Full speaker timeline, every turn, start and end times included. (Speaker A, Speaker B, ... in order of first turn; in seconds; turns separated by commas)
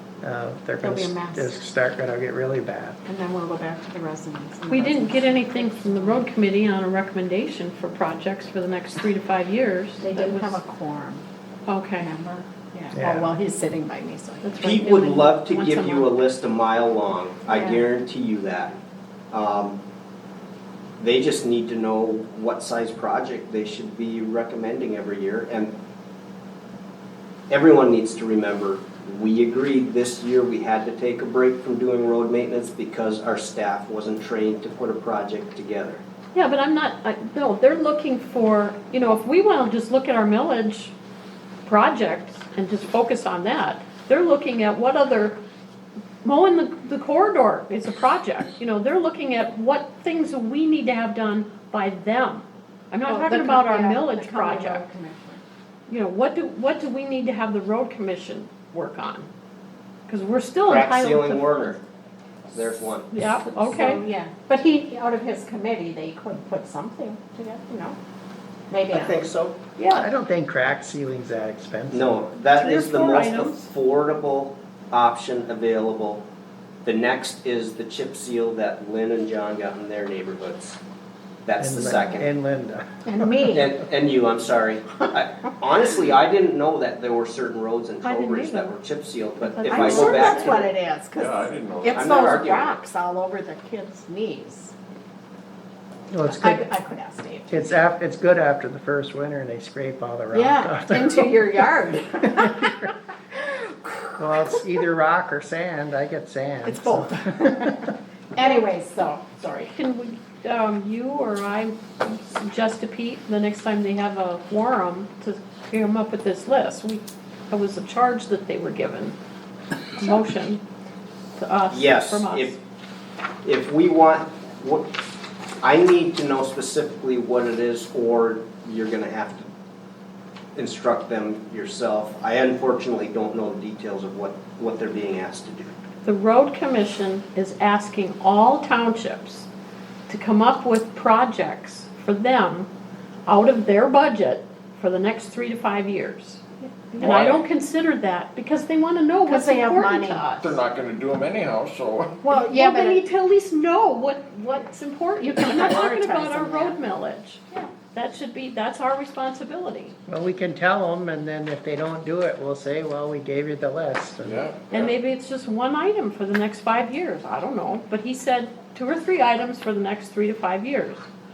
Speaker A: 0.2-3.0, Speaker B: 0.8-1.6, Speaker B: 3.0-6.2, Speaker C: 4.7-10.6, Speaker B: 10.0-11.2, Speaker C: 11.7-12.1, Speaker B: 12.0-15.1, Speaker A: 12.9-13.3, Speaker C: 14.4-16.1, Speaker D: 14.6-18.8, Speaker B: 17.5-17.8, Speaker D: 19.3-19.8, Speaker D: 21.0-25.7, Speaker D: 27.5-36.0, Speaker C: 36.3-40.9, Speaker C: 41.6-45.4, Speaker C: 46.2-54.8, Speaker B: 53.1-55.4, Speaker C: 55.9-59.3, Speaker C: 60.1-61.8, Speaker D: 60.7-61.8, Speaker D: 62.5-63.1, Speaker C: 63.1-64.0, Speaker B: 63.7-68.0, Speaker B: 68.7-69.2, Speaker D: 68.9-69.6, Speaker C: 69.7-70.1, Speaker A: 69.9-72.2, Speaker D: 71.9-76.2, Speaker C: 72.5-73.7, Speaker D: 76.8-80.8, Speaker D: 81.5-82.3, Speaker A: 81.6-83.5, Speaker B: 83.0-83.7, Speaker D: 83.5-90.5, Speaker C: 88.0-88.8, Speaker C: 89.4-90.7, Speaker B: 89.7-94.7, Speaker E: 91.1-92.4, Speaker D: 91.9-92.8, Speaker A: 96.1-96.6, Speaker B: 96.2-97.5, Speaker A: 97.5-101.6, Speaker B: 100.3-102.9, Speaker A: 102.2-102.9, Speaker B: 103.5-104.1, Speaker A: 104.2-107.9, Speaker B: 106.6-109.7, Speaker C: 109.7-119.1, Speaker C: 119.9-120.6, Speaker C: 121.3-122.5, Speaker D: 121.7-122.5, Speaker D: 123.4-124.9, Speaker D: 125.6-129.5, Speaker D: 130.6-135.7, Speaker C: 136.0-139.5, Speaker C: 140.1-142.7, Speaker C: 143.3-146.4, Speaker C: 147.0-150.3, Speaker E: 147.0-147.4, Speaker B: 149.3-150.6, Speaker E: 150.4-152.2, Speaker B: 152.2-153.0, Speaker C: 152.3-157.4, Speaker B: 155.2-156.8, Speaker C: 157.9-159.9, Speaker A: 160.1-164.5, Speaker E: 164.2-164.9, Speaker C: 164.7-171.1